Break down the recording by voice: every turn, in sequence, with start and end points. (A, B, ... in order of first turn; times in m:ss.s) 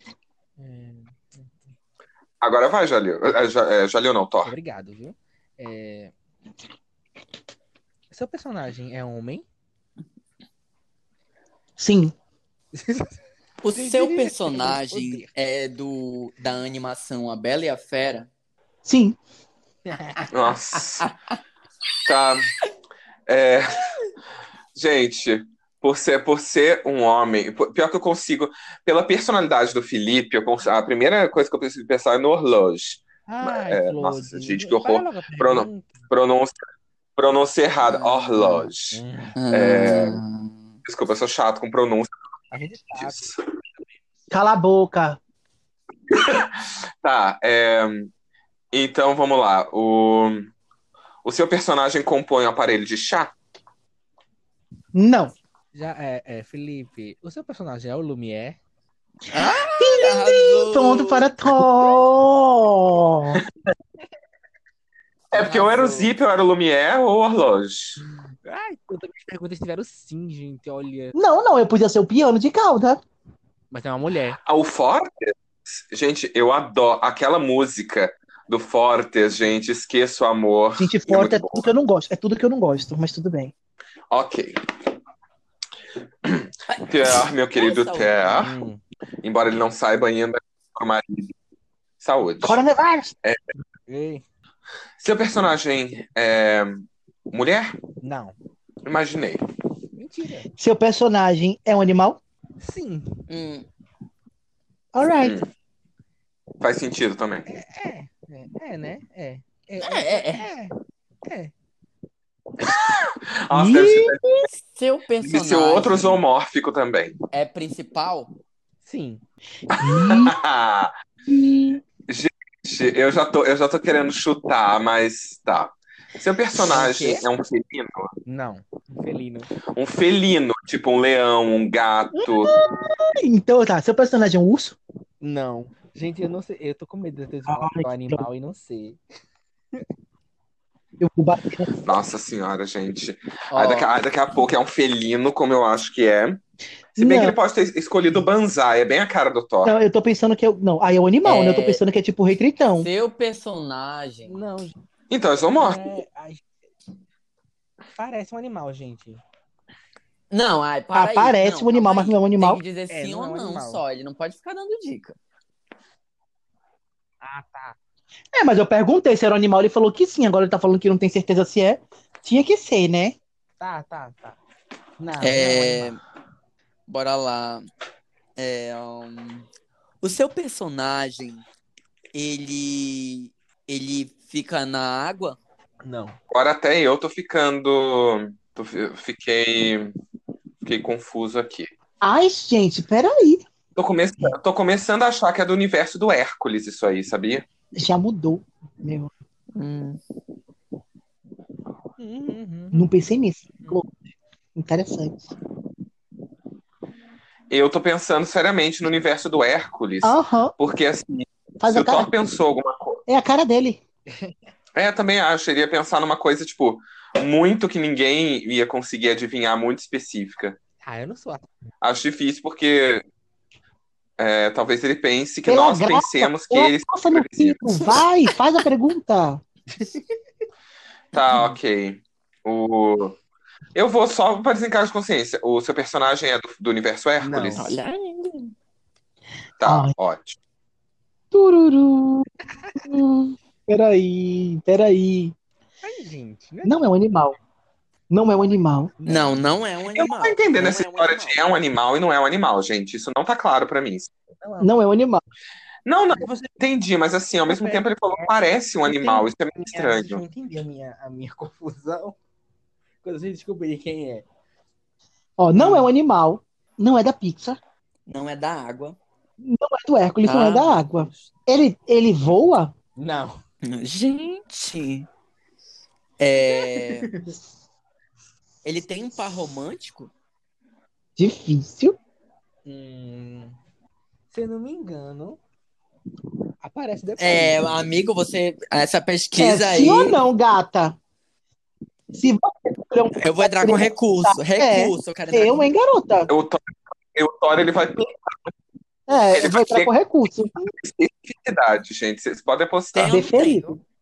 0:00.6-0:01.6 A
0:02.4-0:04.5 B
0:04.4-0:06.1 A
0:08.1-0:09.4 A
0:11.8-0:12.1 C
0:12.7-0:13.1 A
0:13.6-0:18.3 D
0:13.7-0:15.3 A
0:18.8-0:19.2 C
0:19.8-0:20.3 A
0:20.3-0:21.1 B
0:22.0-0:22.5 B
0:23.3-0:23.9 B
0:24.7-0:36.6 B
0:33.3-0:36.1 A
0:37.2-0:39.0 B
0:37.8-0:38.7 D
0:38.9-0:39.4 A
0:39.4-0:40.6 D
0:39.5-0:40.2 B
0:40.8-0:42.1 B
0:42.5-0:43.3 A
0:42.9-0:43.4 B
0:44.3-0:45.2 C
0:46.1-0:48.1 B
0:48.7-0:50.5 B
0:51.2-0:53.3 B
0:54.9-0:55.3 C
0:55.7-0:58.6 A
0:59.3-1:01.3 D
0:59.4-1:03.4 C
1:05.3-1:08.0 B
1:05.3-1:06.1 D
1:08.0-1:11.1 A
1:11.1-1:13.0 C
1:13.7-1:14.4 A
1:14.4-1:21.7 B
1:20.8-1:23.5 C
1:24.1-1:24.6 B
1:26.2-1:28.5 B
1:26.7-1:28.4 D
1:28.4-1:28.8 A
1:29.2-1:31.3 B
1:32.0-1:32.6 B
1:32.4-1:33.1 C
1:33.9-1:34.2 A
1:35.0-1:37.8 B
1:38.0-1:38.3 A
1:38.8-1:39.4 B
1:39.9-1:40.5 A
1:40.6-1:42.2 C
1:42.6-1:43.2 A
1:43.3-1:43.6 D
1:44.9-1:45.4 C
1:45.2-1:45.5 B
1:46.6-1:47.5 B
1:47.4-1:50.7 A
1:49.8-1:50.5 D
1:51.2-1:51.5 A
1:53.3-1:54.2 B
1:53.5-1:54.4 C
1:54.5-1:56.2 D
1:55.2-1:57.2 B
1:57.3-1:58.3 D
1:58.8-1:59.2 A
1:59.7-2:00.9 B
1:59.8-2:00.3 C
2:01.3-2:01.8 C
2:02.1-2:08.1 B
2:06.5-2:07.2 D
2:08.2-2:09.5 A
2:09.7-2:12.5 B
2:12.2-2:14.8 C
2:15.2-2:19.0 A
2:17.5-2:18.2 C
2:21.0-2:21.7 C
2:21.8-2:26.4 B
2:23.6-2:23.9 A
2:27.0-2:29.7 B
2:27.0-2:27.4 C
2:29.6-2:32.9 C
2:31.2-2:31.8 D
2:32.8-2:34.4 D
2:34.3-2:34.8 A
2:35.1-2:35.8 B
2:35.6-2:36.4 A
2:37.9-2:39.2 A
2:40.3-2:45.2 D
2:40.9-2:42.6 C
2:42.9-2:43.8 A
2:47.2-2:47.8 A
2:48.3-2:53.2 C
2:53.6-2:54.4 A
2:55.0-2:55.9 A
2:55.2-2:56.0 D
2:56.9-2:57.7 D
2:58.4-2:59.4 D
3:00.0-3:01.4 D
3:02.1-3:05.4 D
3:05.8-3:06.2 A
3:06.3-3:10.0 B
3:10.6-3:11.7 B
3:12.0-3:13.4 C
3:13.8-3:17.4 B
3:17.8-3:19.1 C
3:19.5-3:20.0 D
3:22.0-3:22.9 A
3:22.7-3:23.9 C
3:24.6-3:25.3 C
3:27.5-3:33.0 B
3:30.0-3:30.5 C
3:31.6-3:32.1 C
3:33.1-3:33.8 C
3:34.7-3:40.6 B
3:40.8-3:41.7 A
3:41.8-3:43.0 B
3:44.2-3:47.8 B
3:45.4-3:49.4 C
3:49.8-3:50.0 A
3:51.1-3:53.2 B
3:53.7-3:57.7 B
3:57.2-3:57.7 A
3:57.6-3:58.5 D
3:59.6-4:00.4 B
3:59.6-3:59.9 C
4:01.3-4:02.2 C
4:02.9-4:05.3 C
4:05.8-4:06.9 A
4:06.6-4:07.4 C
4:08.1-4:08.9 C
4:09.0-4:09.6 A
4:09.0-4:11.4 D
4:09.9-4:14.1 B
4:14.4-4:14.7 A
4:14.6-4:15.2 C
4:15.8-4:20.2 B
4:16.2-4:16.5 A
4:17.5-4:18.3 A
4:18.8-4:22.2 A
4:23.0-4:24.2 A
4:25.4-4:27.6 C
4:25.6-4:25.9 A
4:28.1-4:29.0 D
4:29.4-4:32.7 C
4:30.2-4:30.8 D
4:33.0-4:33.4 A
4:33.6-4:35.1 D
4:36.2-4:37.1 D
4:36.5-4:37.4 A
4:38.6-4:40.1 D
4:41.2-4:42.0 C
4:42.6-4:43.6 A
4:44.3-4:45.4 A
4:46.6-4:47.9 A
4:47.2-4:50.2 D
4:49.4-4:51.0 C
4:52.1-4:56.3 C
4:53.2-4:55.7 D
4:56.3-4:58.5 B
4:59.1-5:00.5 C
4:59.3-4:59.9 B
5:00.8-5:03.2 B
5:02.9-5:03.7 D
5:03.0-5:03.8 C